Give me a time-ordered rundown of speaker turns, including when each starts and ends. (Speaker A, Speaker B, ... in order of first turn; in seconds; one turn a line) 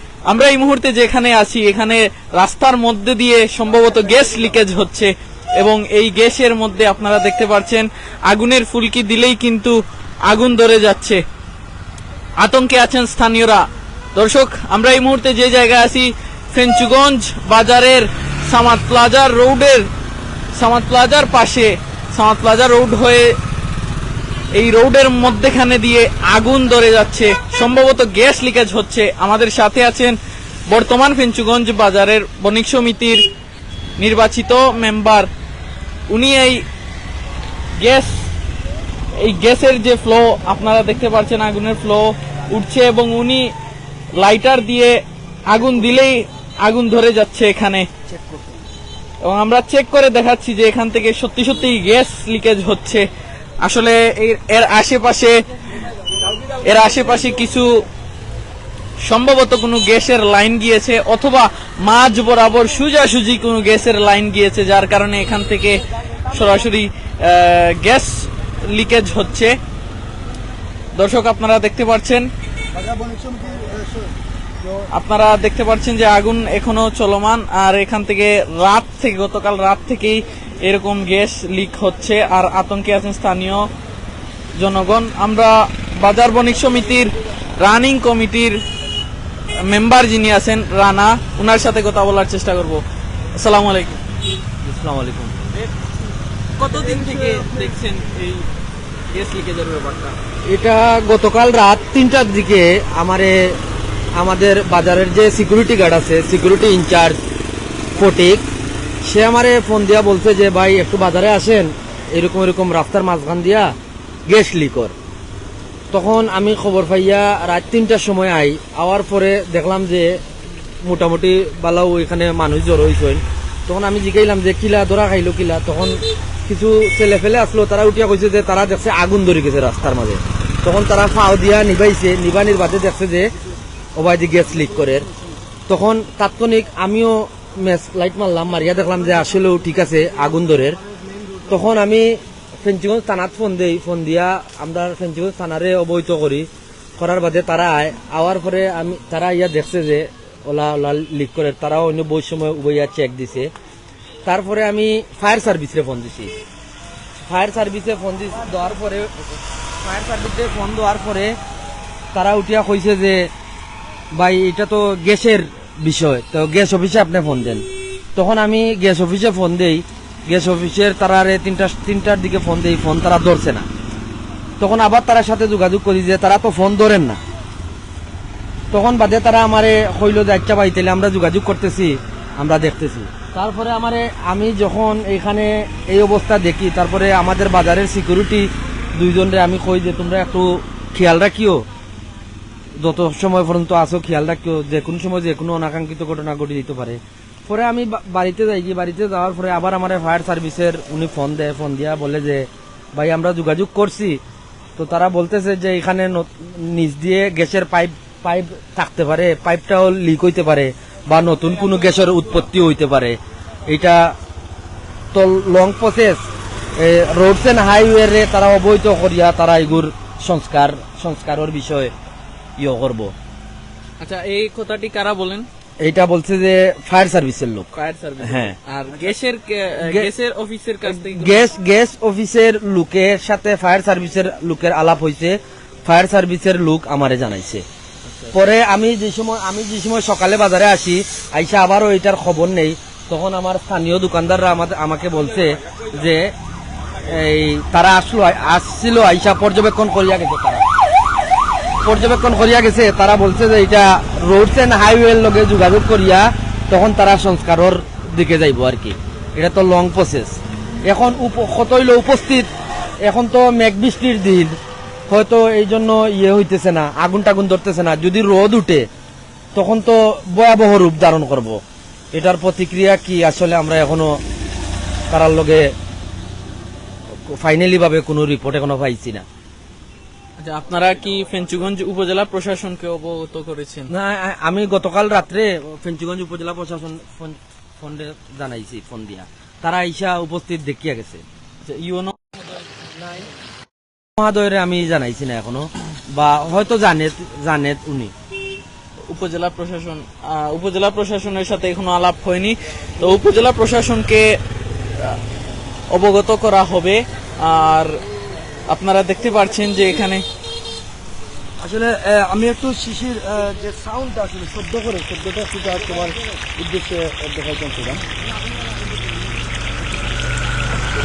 Speaker A: 0.3-9.8
Speaker A: 10.3-11.2
Speaker A: 12.4-13.6
Speaker A: 14.1-19.8
Speaker A: 20.6-23.3
Speaker A: 24.5-30.1
Speaker A: 30.7-33.2
Speaker A: 34.0-35.3
Speaker A: 36.1-36.6
Speaker A: 37.8-38.2
Speaker A: 39.2-43.5
Speaker A: 44.2-47.9
Speaker B: 48.1-48.6
Speaker A: 49.2-53.0
Speaker A: 53.6-55.3
Speaker A: 56.6-57.7
Speaker A: 59.1-69.5
Speaker A: 71.0-72.3
Speaker B: 72.7-74.9
Speaker A: 74.9-83.7
Speaker A: 84.6-88.5
Speaker A: 89.7-92.8
Speaker A: 93.4-94.0
Speaker C: 94.6-95.5
Speaker A: 96.6-98.5
Speaker A: 99.1-100.2
Speaker C: 100.5-103.6
Speaker C: 104.2-107.2
Speaker C: 107.9-108.5
Speaker C: 109.0-113.7
Speaker C: 114.3-114.9
Speaker C: 115.9-120.2
Speaker C: 120.8-133.3
Speaker C: 133.9-135.1
Speaker C: 135.7-140.8
Speaker C: 141.5-153.5
Speaker C: 154.2-156.3
Speaker C: 157.2-159.3
Speaker C: 159.8-161.4
Speaker C: 162.1-163.3
Speaker C: 164.2-167.6
Speaker C: 168.2-173.7
Speaker C: 174.6-177.2
Speaker C: 178.7-191.7
Speaker C: 192.8-204.2
Speaker C: 204.8-214.1
Speaker C: 215.1-216.2
Speaker C: 216.8-221.9
Speaker C: 222.6-223.1
Speaker A: 224.0-225.4
Speaker C: 225.8-227.7
Speaker A: 227.7-231.5
Speaker C: 228.2-228.6
Speaker C: 230.8-237.6
Speaker C: 238.3-246.3
Speaker C: 247.1-250.7
Speaker C: 251.8-262.5
Speaker C: 263.0-264.6
Speaker C: 265.1-268.9
Speaker C: 269.5-271.6
Speaker C: 272.1-274.2
Speaker C: 275.1-275.7
Speaker C: 277.3-279.2
Speaker A: 280.4-283.9
Speaker C: 283.9-291.2
Speaker A: 291.6-292.1
Speaker C: 294.2-298.1
Speaker A: 299.1-304.2
Speaker A: 305.9-307.9
Speaker A: 308.7-310.2
Speaker B: 311.6-318.0